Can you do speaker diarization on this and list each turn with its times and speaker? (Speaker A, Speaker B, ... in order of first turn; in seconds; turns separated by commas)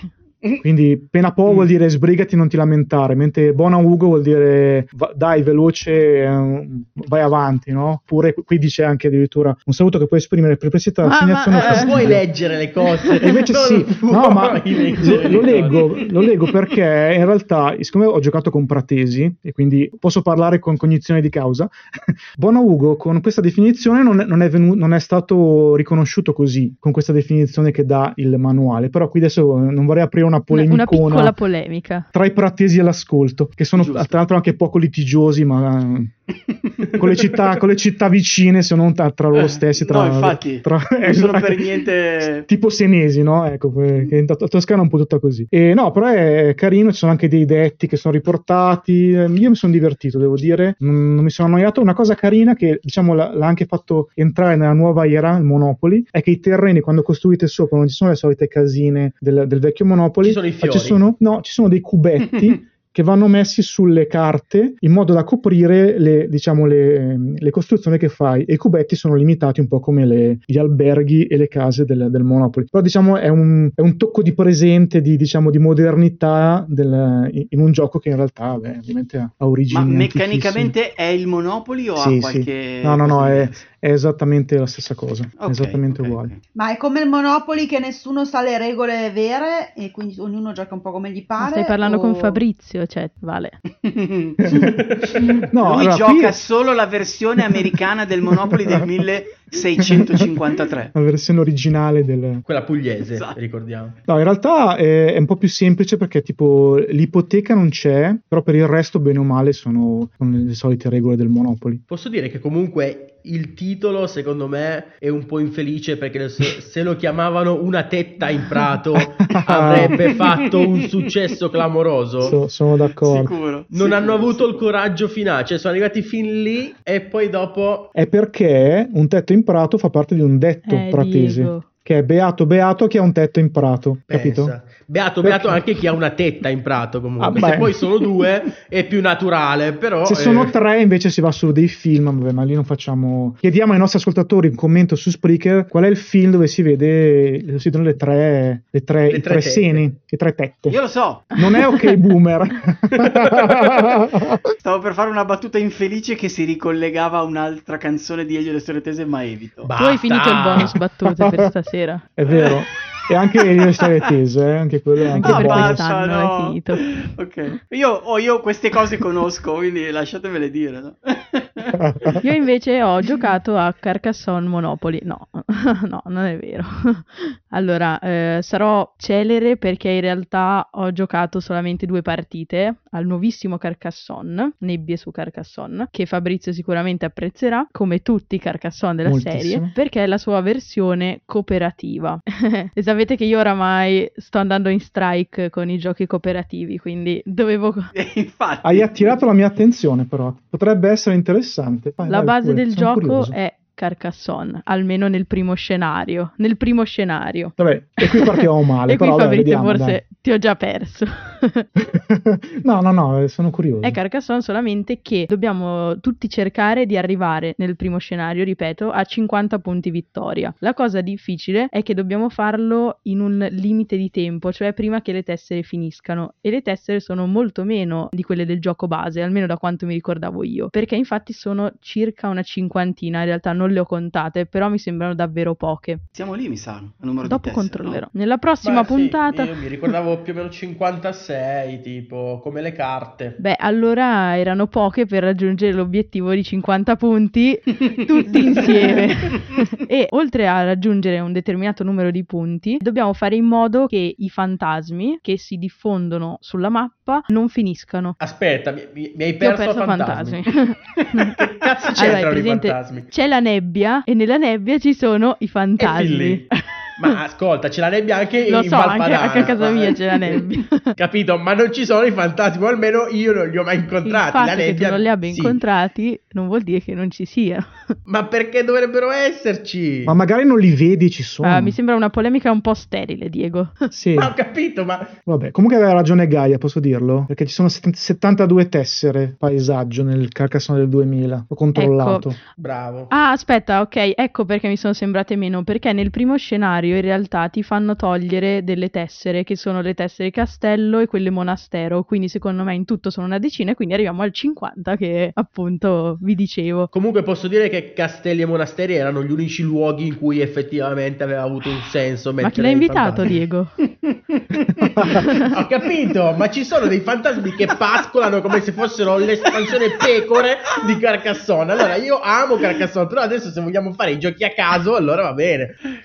Speaker A: 0.6-12.3, Speaker B: 11.0-12.0, Speaker C: 11.6-16.4, Speaker A: 13.2-21.7, Speaker A: 22.3-31.4, Speaker B: 30.5-32.1, Speaker A: 32.1-36.2, Speaker D: 33.8-34.2, Speaker A: 36.9-80.7, Speaker D: 39.4-42.5, Speaker C: 60.2-61.0, Speaker D: 79.7-83.6, Speaker A: 82.0-86.3, Speaker D: 85.4-86.4, Speaker E: 86.5-92.4, Speaker B: 91.4-93.6, Speaker D: 93.8-94.7, Speaker A: 94.4-96.4, Speaker D: 95.6-100.9, Speaker A: 98.3-98.8, Speaker A: 99.8-100.4, Speaker A: 100.9-102.5, Speaker C: 102.5-104.0, Speaker D: 103.1-103.4, Speaker A: 104.1-111.8, Speaker C: 111.9-122.4, Speaker A: 119.0-120.0, Speaker D: 119.7-120.1, Speaker A: 122.2-123.4, Speaker D: 123.0-124.7, Speaker C: 123.7-127.9, Speaker A: 128.0-134.6, Speaker B: 130.7-131.7, Speaker C: 134.1-140.5, Speaker A: 135.2-135.7, Speaker A: 137.2-137.8, Speaker A: 140.1-150.8, Speaker C: 149.1-149.8, Speaker D: 150.7-151.3, Speaker A: 151.3-154.5, Speaker D: 154.6-159.7, Speaker C: 159.7-160.8, Speaker B: 159.8-162.1, Speaker A: 160.6-161.5, Speaker A: 162.2-165.8, Speaker B: 165.2-166.9, Speaker D: 165.2-172.2, Speaker A: 171.8-172.2, Speaker B: 172.2-197.9, Speaker A: 189.1-189.7, Speaker D: 197.9-199.2, Speaker A: 198.6-203.3, Speaker B: 202.1-211.7, Speaker A: 207.6-210.0, Speaker A: 211.8-214.0, Speaker B: 213.8-236.0, Speaker D: 236.1-238.0, Speaker B: 237.2-239.5, Speaker C: 238.6-243.4, Speaker B: 243.4-258.1, Speaker C: 258.2-260.4, Speaker B: 259.4-261.3, Speaker C: 260.9-263.1, Speaker B: 261.9-267.1, Speaker C: 265.8-266.5, Speaker C: 267.0-275.6, Speaker B: 268.5-270.9, Speaker B: 274.1-277.9, Speaker C: 278.1-280.2, Speaker A: 280.1-281.8, Speaker B: 281.4-283.9, Speaker A: 283.9-284.3, Speaker C: 284.2-285.1, Speaker A: 285.3-292.4, Speaker B: 291.8-292.4, Speaker C: 292.6-293.1, Speaker B: 293.1-306.9, Speaker C: 306.9-313.4, Speaker B: 312.4-313.7, Speaker C: 314.6-325.8, Speaker A: 314.9-315.2, Speaker B: 315.2-315.5